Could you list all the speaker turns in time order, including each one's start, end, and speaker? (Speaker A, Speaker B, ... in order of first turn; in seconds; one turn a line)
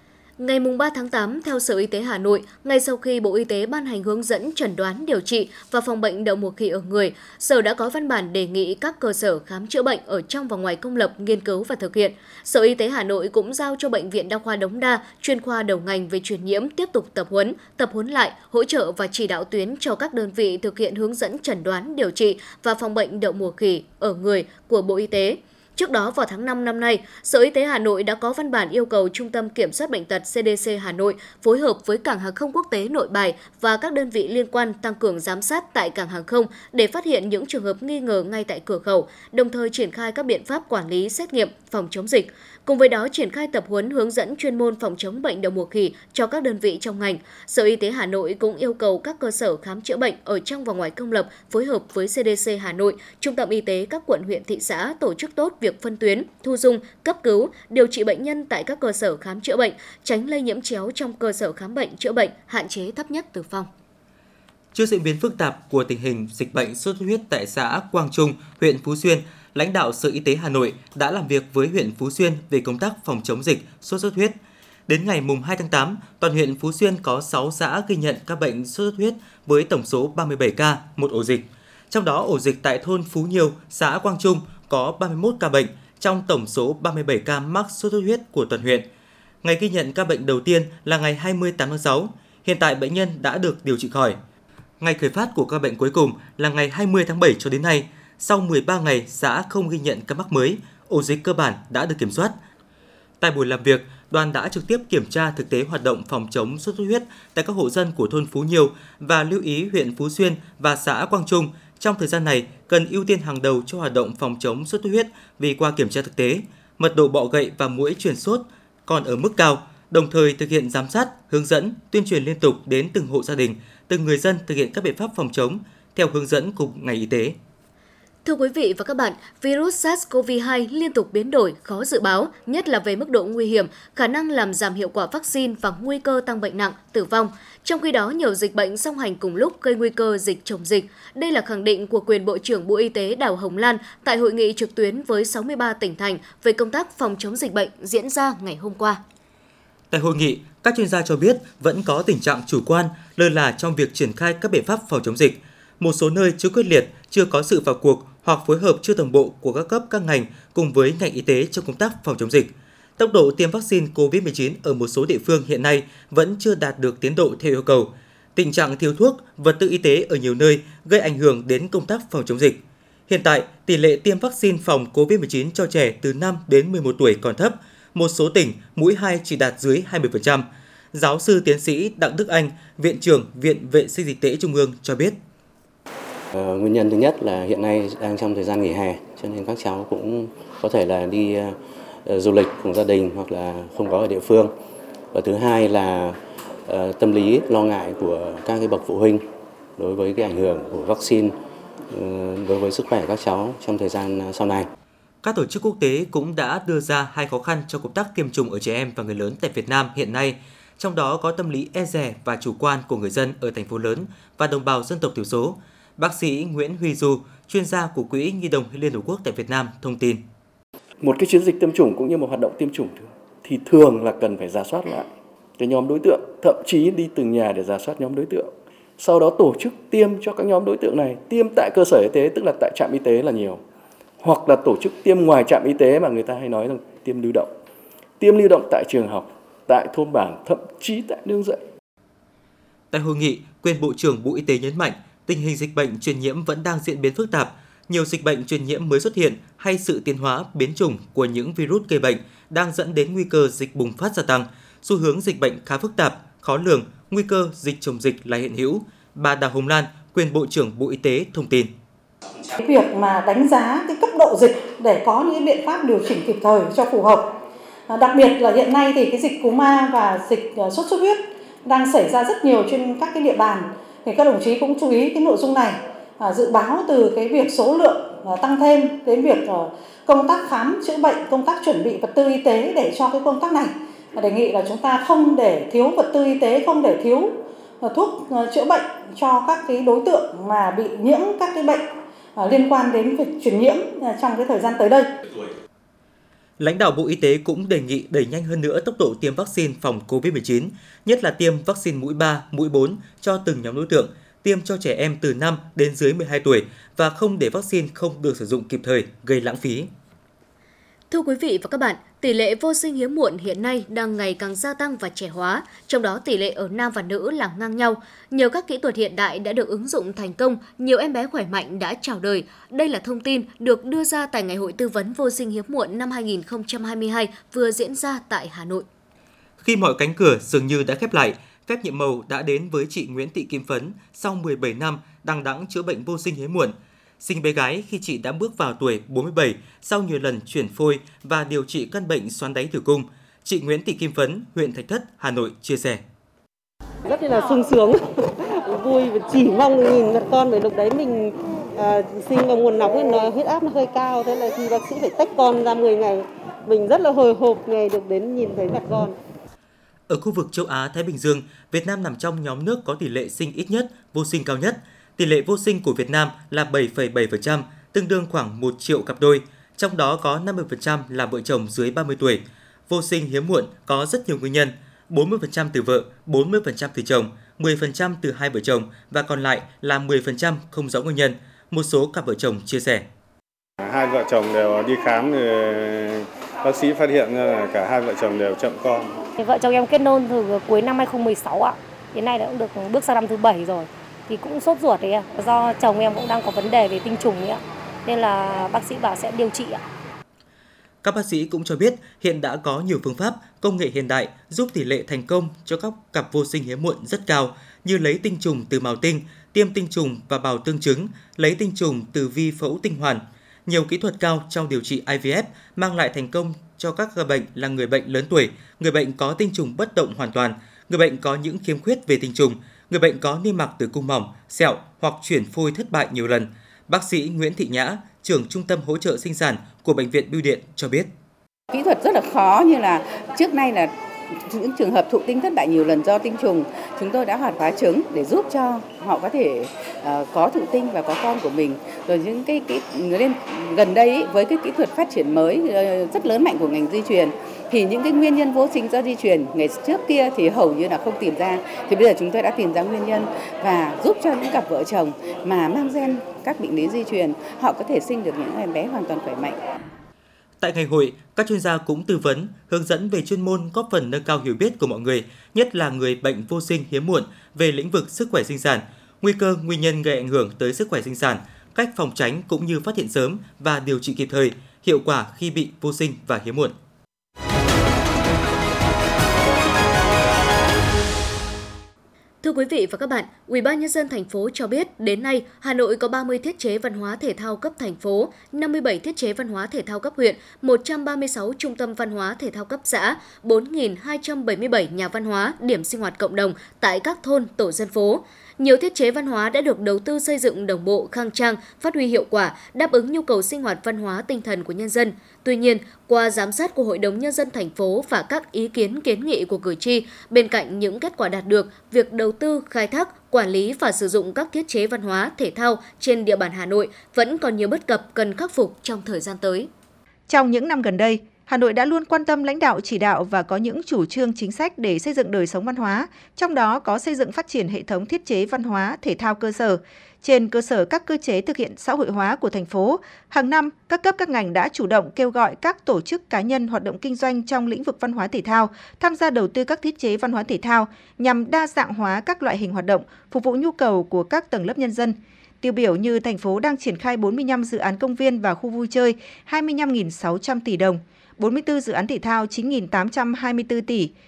Speaker A: 0.4-63.7
Speaker B: 64.7-88.9
Speaker B: 89.4-94.2
Speaker B: 94.8-102.4
Speaker B: 103.2-127.4
Speaker A: 128.2-149.0
Speaker B: 149.9-185.2
Speaker C: 186.3-194.5
Speaker C: 195.1-199.2
Speaker C: 199.8-201.3
Speaker C: 201.9-204.7
Speaker B: 205.2-220.2
Speaker D: 221.0-233.6
Speaker D: 234.2-237.5
Speaker D: 238.2-241.6
Speaker B: 242.9-261.7
Speaker E: 262.6-267.4
Speaker E: 267.9-295.1
Speaker B: 296.6-309.9
Speaker A: 311.1-328.9
Speaker B: 329.6-346.0
Speaker F: 347.1-359.1
Speaker B: 360.1-383.1
Speaker G: 383.9-389.1
Speaker H: 389.4-399.8
Speaker B: 401.0-431.1
Speaker I: 431.7-459.6
Speaker B: 460.6-476.8
Speaker A: 482.4-519.7
Speaker J: 520.3-554.1